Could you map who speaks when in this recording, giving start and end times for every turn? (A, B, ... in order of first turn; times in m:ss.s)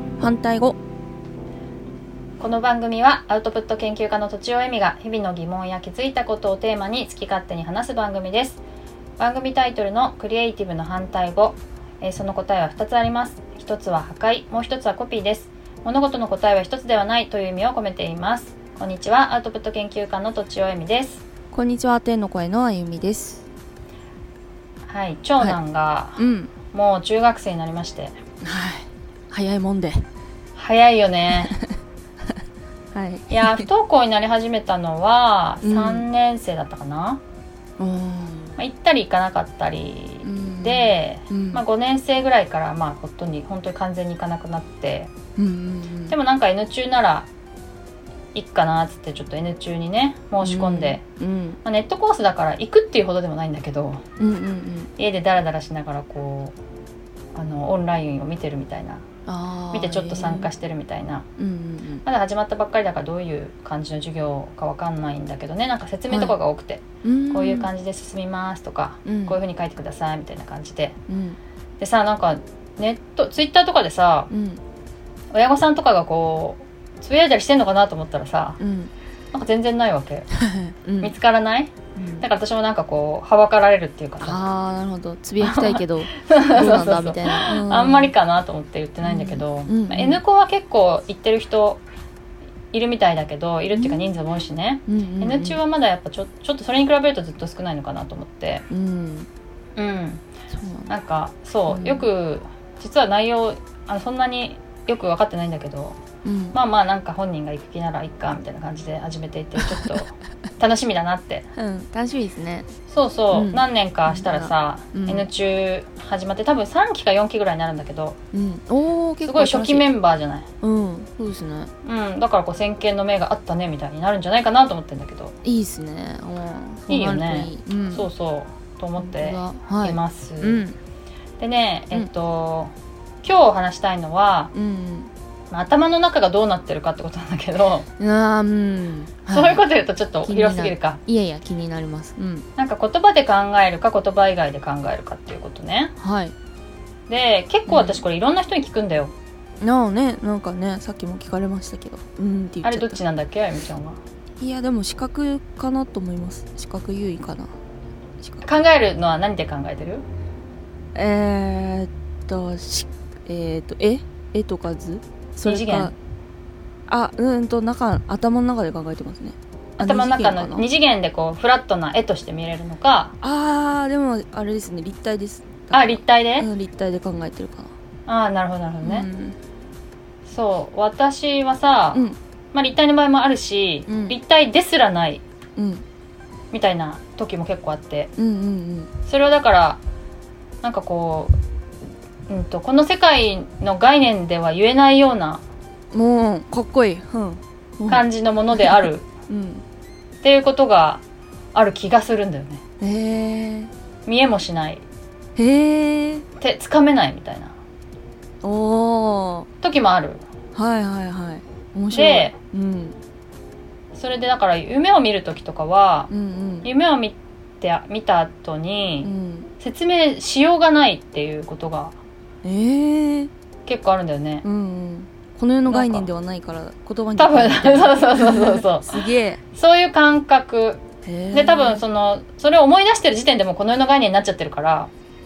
0:00.2-0:00.8 A
0:02.4-0:08.6 B
0:09.2-0:21.2 B
0:21.5-0:23.4 A
0:24.8-0:28.2 B
0:26.2-0:26.5 A
0:28.4-0:30.1 A
0:30.6-0:31.5 B
0:31.4-0:31.7 A
0:32.9-0:33.7 A
0:33.3-0:37.2 B
0:35.6-0:36.0 A
0:37.8-0:38.6 A
0:38.6-0:45.1 B
0:40.2-0:41.6 A
0:45.4-0:46.2 A
0:46.1-0:47.3 B
0:48.3-0:51.0 B
0:50.4-0:51.6 A
0:51.6-0:54.0 B
0:54.2-0:54.9 A
0:55.0-0:56.6 B
0:57.3-0:59.0 B
0:59.2-1:00.5 A
0:59.7-1:01.2 B
1:01.4-1:02.0 A
1:02.0-1:11.0 B
1:06.1-1:06.3 A
1:07.0-1:07.7 A
1:09.0-1:09.4 A
1:11.1-1:11.4 A
1:11.8-1:14.3 B
1:14.3-1:14.6 A
1:15.3-1:18.6 B
1:18.6-1:18.9 A
1:19.3-1:20.3 B
1:20.3-1:21.1 A
1:21.0-1:24.4 B
1:22.0-1:22.2 A
1:24.2-1:28.1 A
1:25.4-1:31.8 B
1:29.0-1:30.2 A
1:32.7-1:38.6 B
1:33.7-1:34.0 A
1:34.9-1:35.6 A
1:38.7-1:39.3 A
1:39.8-1:40.2 B
1:40.5-1:40.9 A
1:40.9-1:46.0 B
1:41.7-1:42.1 A
1:46.2-1:46.6 A
1:46.5-1:51.5 B
1:49.6-1:50.0 A
1:51.5-1:52.7 A
1:52.9-1:58.2 B
1:53.3-1:55.3 A
1:58.3-1:59.8 A
1:59.2-2:00.5 B
2:00.6-2:01.7 A
2:01.8-2:05.3 B
2:05.4-2:08.1 A
2:06.9-2:10.6 B
2:09.0-2:10.8 A
2:11.4-2:12.7 B
2:13.2-2:14.5 B
2:14.5-2:15.1 A
2:15.5-2:17.8 B
2:18.0-2:19.6 A
2:19.3-2:21.0 B
2:20.2-2:22.5 A
2:22.6-2:25.9 B
2:26.0-2:26.3 A
2:27.1-2:29.1 B
2:27.7-2:28.0 A
2:29.6-2:33.0 A
2:32.6-2:34.0 B
2:34.4-2:37.5 A
2:38.4-2:40.0 B
2:40.9-2:45.9 A
2:45.4-2:45.9 B
2:46.9-2:50.7 A
2:49.8-2:53.1 B
2:53.2-2:57.7 A
2:55.7-2:56.5 B
2:58.1-2:59.1 B
2:58.8-2:59.4 A
3:00.2-3:05.2 B
3:01.9-3:02.2 A
3:03.9-3:04.2 A
3:05.6-3:05.8 A
3:06.5-3:08.1 B
3:08.2-3:08.9 A
3:09.0-3:09.8 B
3:10.6-3:11.4 B
3:12.3-3:15.4 B
3:15.9-3:19.6 A
3:17.9-3:19.0 B
3:20.2-3:21.0 B
3:21.5-3:22.6 B
3:22.8-3:23.7 A
3:24.1-3:24.8 B
3:25.4-3:26.2 A
3:26.4-3:27.6 B
3:28.4-3:29.5 A
3:29.6-3:30.2 B
3:30.5-3:33.0 A
3:31.9-3:32.3 B
3:33.9-3:36.1 B
3:36.1-3:36.7 A
3:36.6-3:42.0 B
3:39.0-3:39.5 A
3:42.4-3:43.3 A
3:43.6-3:44.4 B
3:44.4-3:49.4 A
3:45.7-3:46.1 B
3:47.2-3:54.9 B
3:51.0-3:51.8 A